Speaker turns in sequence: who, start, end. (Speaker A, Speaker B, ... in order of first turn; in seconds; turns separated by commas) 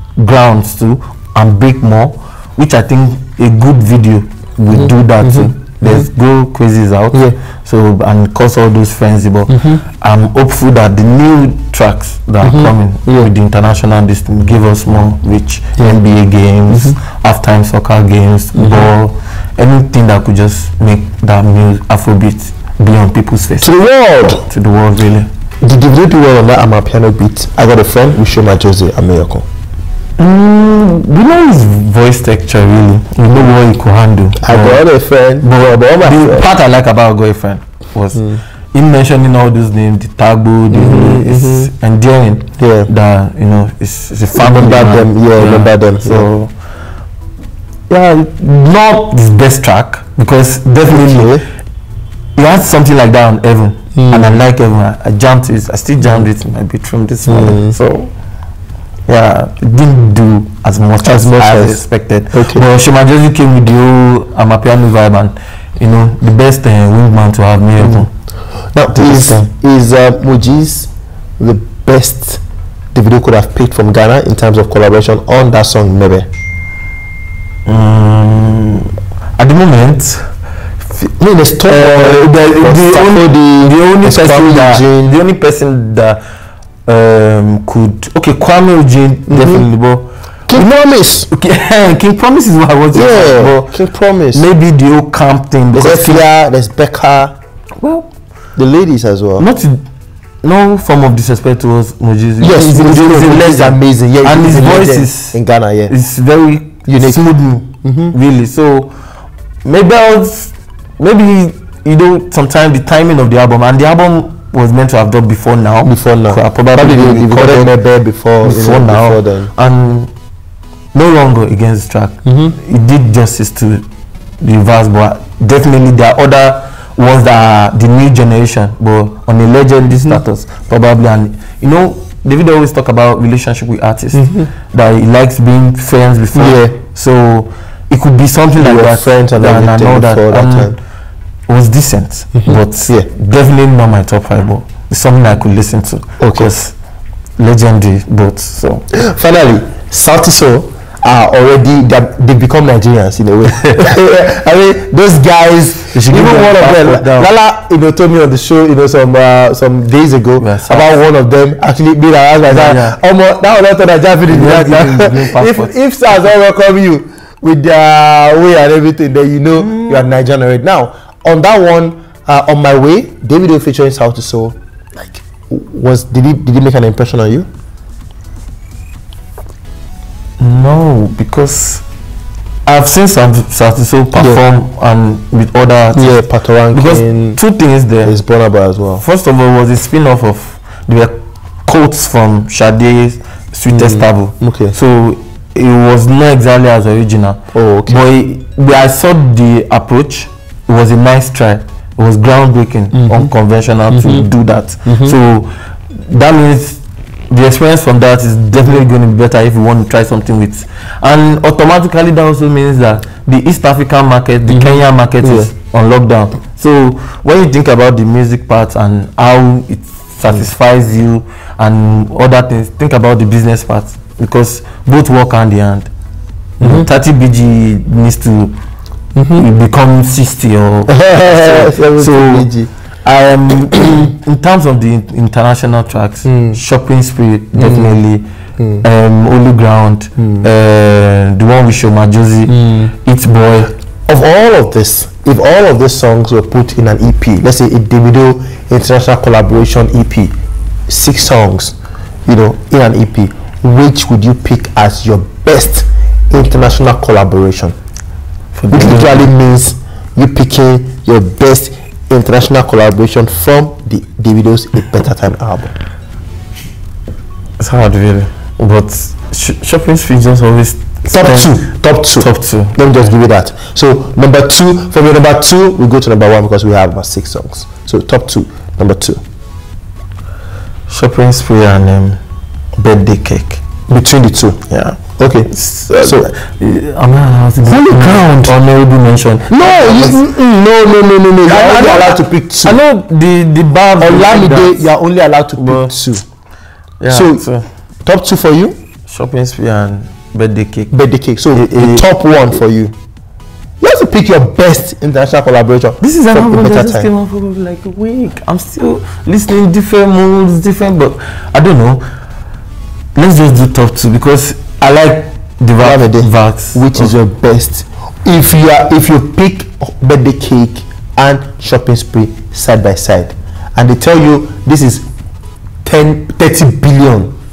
Speaker A: 0.2-23.8, Speaker B: 4.7-6.1, Speaker B: 9.5-9.8, Speaker B: 12.4-13.3, Speaker B: 16.7-17.0, Speaker B: 18.6-18.9, Speaker B: 23.6-24.4, Speaker A: 24.4-25.3, Speaker B: 25.6-29.4, Speaker A: 30.2-34.8, Speaker B: 34.4-36.5, Speaker A: 35.4-46.5, Speaker B: 38.1-38.4, Speaker B: 40.7-41.7, Speaker B: 42.6-42.9, Speaker B: 44.3-46.3, Speaker A: 47.9-51.4, Speaker B: 50.9-51.4, Speaker A: 52.4-58.1, Speaker B: 54.0-54.4, Speaker B: 57.3-57.8, Speaker A: 59.1-68.1, Speaker B: 61.0-62.7, Speaker B: 67.8-68.1, Speaker B: 68.7-72.4, Speaker A: 68.9-69.5, Speaker B: 72.9-76.3, Speaker A: 77.7-80.3, Speaker B: 81.2-85.2, Speaker A: 81.7-86.2, Speaker A: 86.9-90.8, Speaker B: 89.3-89.7, Speaker B: 90.5-91.3, Speaker A: 91.3-93.8, Speaker B: 92.9-94.5, Speaker A: 94.3-96.3, Speaker B: 95.7-97.3, Speaker A: 97.8-98.1, Speaker B: 98.6-99.5, Speaker A: 99.4-99.8, Speaker A: 100.4-108.9, Speaker B: 102.4-105.9, Speaker B: 106.9-108.2, Speaker A: 109.7-117.7, Speaker B: 115.8-119.5, Speaker A: 118.4-120.1, Speaker A: 120.9-123.8, Speaker B: 122.3-122.5, Speaker A: 124.4-140.8, Speaker B: 134.2-134.5, Speaker B: 136.3-136.8, Speaker B: 138.6-140.8, Speaker A: 141.5-146.7, Speaker B: 142.4-143.1, Speaker B: 146.2-146.5, Speaker A: 147.4-148.8, Speaker B: 148.9-177.5, Speaker A: 155.9-157.3, Speaker A: 160.4-161.0, Speaker A: 162.5-163.0, Speaker A: 164.3-165.8, Speaker A: 169.6-170.1, Speaker A: 180.4-181.8, Speaker A: 182.7-188.2, Speaker B: 184.2-184.4, Speaker B: 185.9-187.4, Speaker B: 188.0-189.0, Speaker A: 189.0-205.5, Speaker B: 193.7-194.8, Speaker B: 197.5-198.0, Speaker B: 202.9-203.3, Speaker B: 203.9-204.3, Speaker B: 204.9-205.2, Speaker A: 206.1-225.9, Speaker B: 214.5-215.5, Speaker A: 226.6-228.6, Speaker B: 226.6-226.9, Speaker B: 229.2-229.5, Speaker A: 229.3-232.5, Speaker B: 230.9-232.7, Speaker A: 233.1-238.3, Speaker B: 236.2-236.6, Speaker B: 237.6-238.0, Speaker A: 238.8-243.7, Speaker B: 240.2-240.5, Speaker B: 242.5-242.9, Speaker B: 244.1-250.3, Speaker B: 250.9-257.8, Speaker A: 258.6-259.3, Speaker B: 258.7-265.7, Speaker A: 267.6-272.8, Speaker B: 271.1-279.2, Speaker A: 280.9-282.2, Speaker A: 282.8-283.7, Speaker B: 283.9-284.6, Speaker A: 284.7-290.2, Speaker B: 285.2-286.3, Speaker B: 287.6-288.6, Speaker B: 289.5-292.8, Speaker A: 291.4-294.9, Speaker B: 294.0-296.2, Speaker A: 295.6-296.1, Speaker A: 297.0-297.6, Speaker B: 297.1-297.5, Speaker B: 298.1-298.8, Speaker A: 299.1-300.9, Speaker B: 300.9-302.9, Speaker A: 301.5-302.1, Speaker B: 303.8-307.1, Speaker A: 306.0-312.0, Speaker A: 313.2-317.1, Speaker B: 315.8-325.1, Speaker B: 325.8-327.3